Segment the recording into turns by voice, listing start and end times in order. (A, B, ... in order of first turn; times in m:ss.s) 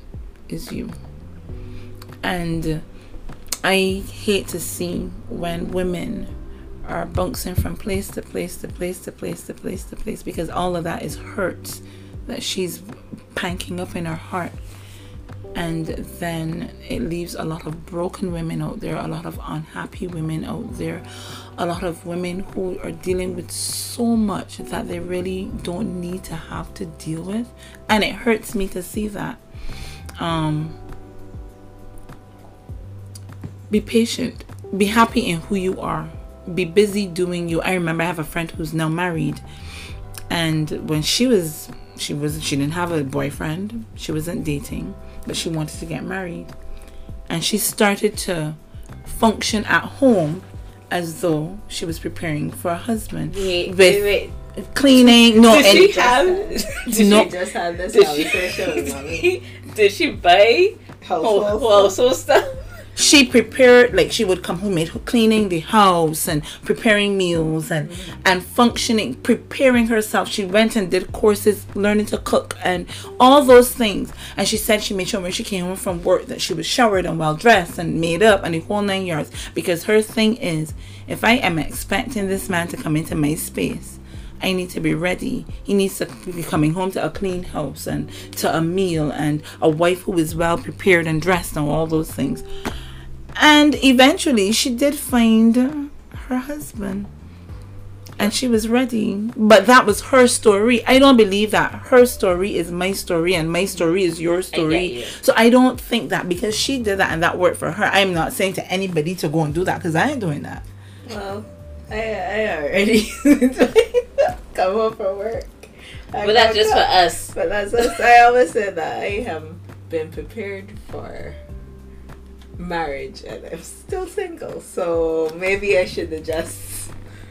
0:00.5-0:01.0 A
0:02.2-0:02.8 A
0:03.6-0:06.3 A
0:06.8-0:14.6 A
0:15.5-0:29.4 A
0:30.2-0:30.8 A
0:33.7-0:39.4 A
0:40.3-0:46.5 A
0:47.3-0:56.0 A
0:53.2-0:54.3 B
0:55.3-0:57.3 B
0:55.4-0:59.3 C
0:56.9-0:57.3 A
0:57.9-1:02.6 B
1:01.0-1:02.0 C
1:02.9-1:32.4 A
1:07.8-1:08.2 C
1:33.3-1:37.1 A
1:38.2-1:50.6 A
1:44.5-1:45.2 B
1:51.1-2:01.4 C
1:56.2-1:57.3 B
2:02.6-2:06.9 C